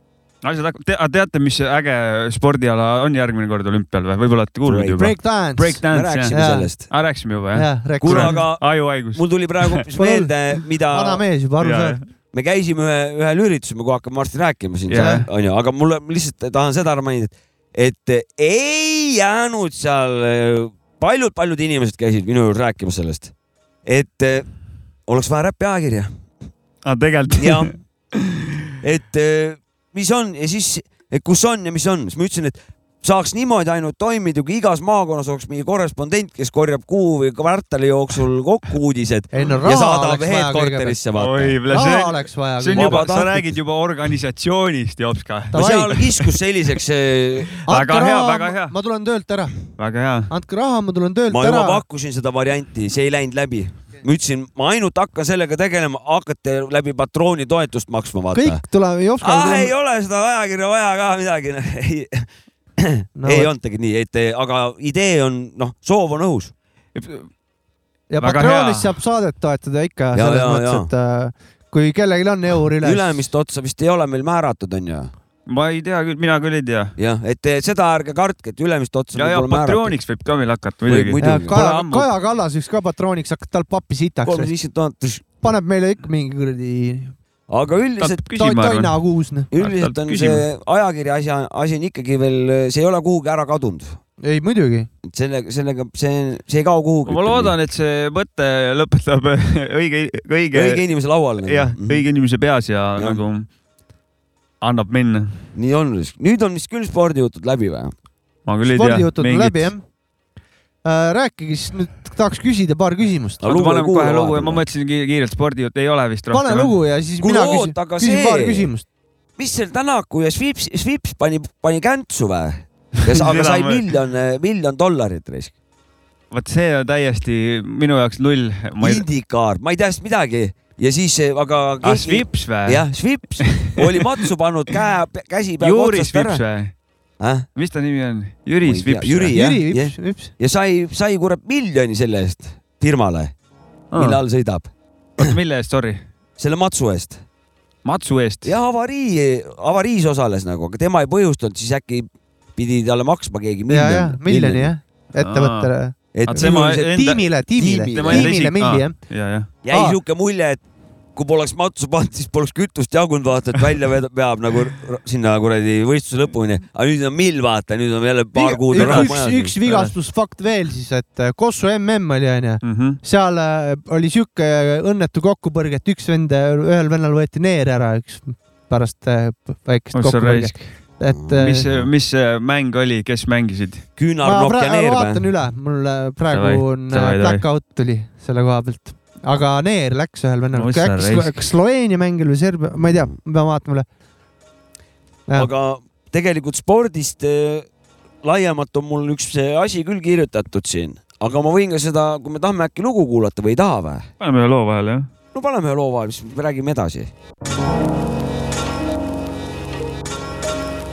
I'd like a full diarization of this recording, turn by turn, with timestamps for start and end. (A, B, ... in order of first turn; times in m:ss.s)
0:00.4-0:09.8 A
0:04.6-0:05.0 B
0:05.0-0:06.7 C
0:05.9-0:06.9 B
0:07.5-0:08.4 C
0:08.0-0:11.2 B
0:10.0-0:10.3 C
0:10.9-0:12.0 C
0:11.6-0:12.0 A
0:12.3-0:23.3 B
0:14.9-0:15.2 A
0:15.0-0:15.2 C
0:23.8-0:24.4 B
0:25.1-0:26.1 B
0:26.8-0:28.5 A
0:27.4-0:27.7 B
0:28.8-0:41.6 B
0:39.3-0:41.0 C
0:41.1-0:46.3 A
0:41.7-0:43.1 C
0:42.7-0:43.4 B
0:45.5-0:46.0 C
0:45.5-0:47.5 B
0:47.6-0:48.7 A
0:47.6-0:49.5 C
0:49.7-0:50.3 A
0:50.3-0:51.8 C
0:51.3-0:58.6 B
0:58.3-0:59.7 C
0:59.2-1:02.3 B
1:02.8-1:06.5 B
1:03.2-1:03.5 C
1:06.9-1:07.3 A
1:08.1-1:13.2 C
1:08.2-1:08.9 A
1:10.1-1:10.9 B
1:12.8-1:15.1 B
1:15.5-1:16.9 A
1:17.0-1:20.0 B
1:19.1-1:22.1 A
1:20.8-1:21.6 B
1:21.2-1:24.5 C
1:24.2-1:25.2 B
1:25.4-1:27.1 C
1:27.5-1:28.2 B
1:28.0-1:29.0 A
1:28.3-1:29.5 C
1:29.5-1:34.0 B
1:29.5-1:30.4 A
1:34.2-1:34.9 C
1:35.0-1:37.5 B
1:37.0-1:40.8 A
1:40.5-1:42.0 B
1:41.4-1:43.5 A
1:43.0-1:43.2 B
1:44.6-1:45.4 A
1:45.5-1:47.9 B
1:48.4-1:49.7 A
1:48.7-1:49.8 C
1:50.8-1:53.4 C
1:53.4-1:54.6 B
1:53.4-1:56.7 A
1:56.3-1:58.8 C
1:57.2-1:58.7 B
1:59.4-2:05.5 B
2:03.0-2:03.8 A
2:06.3-2:09.0 A
2:08.8-2:16.4 B
2:11.8-2:14.2 A
2:15.6-2:16.7 A
2:17.2-2:17.4 B
2:17.6-2:19.4 A
2:18.6-2:23.3 B
2:19.3-2:20.3 C
2:23.9-2:24.2 A
2:23.9-2:25.3 B
2:25.2-2:26.0 A
2:26.4-2:27.2 B
2:27.8-2:28.6 A
2:28.4-2:34.7 B
2:33.7-2:39.0 C
2:35.2-2:35.7 A
2:36.1-2:36.8 B
2:36.3-2:37.3 A
2:37.6-2:38.3 B
2:37.9-2:39.5 A
2:39.6-2:40.6 B
2:39.7-2:40.0 C
2:41.1-2:49.6 B
2:48.3-3:01.7 C
2:48.7-2:49.9 A
2:52.6-2:53.0 A
2:59.9-3:00.7 A
3:01.1-3:01.9 B
3:01.3-3:03.8 A
3:04.0-3:05.3 B
3:04.2-3:13.8 C
3:06.3-3:07.4 A
3:10.5-3:11.4 A
3:15.3-3:17.7 B
3:18.2-3:24.1 B
3:24.2-3:25.1 A
3:25.3-3:27.1 B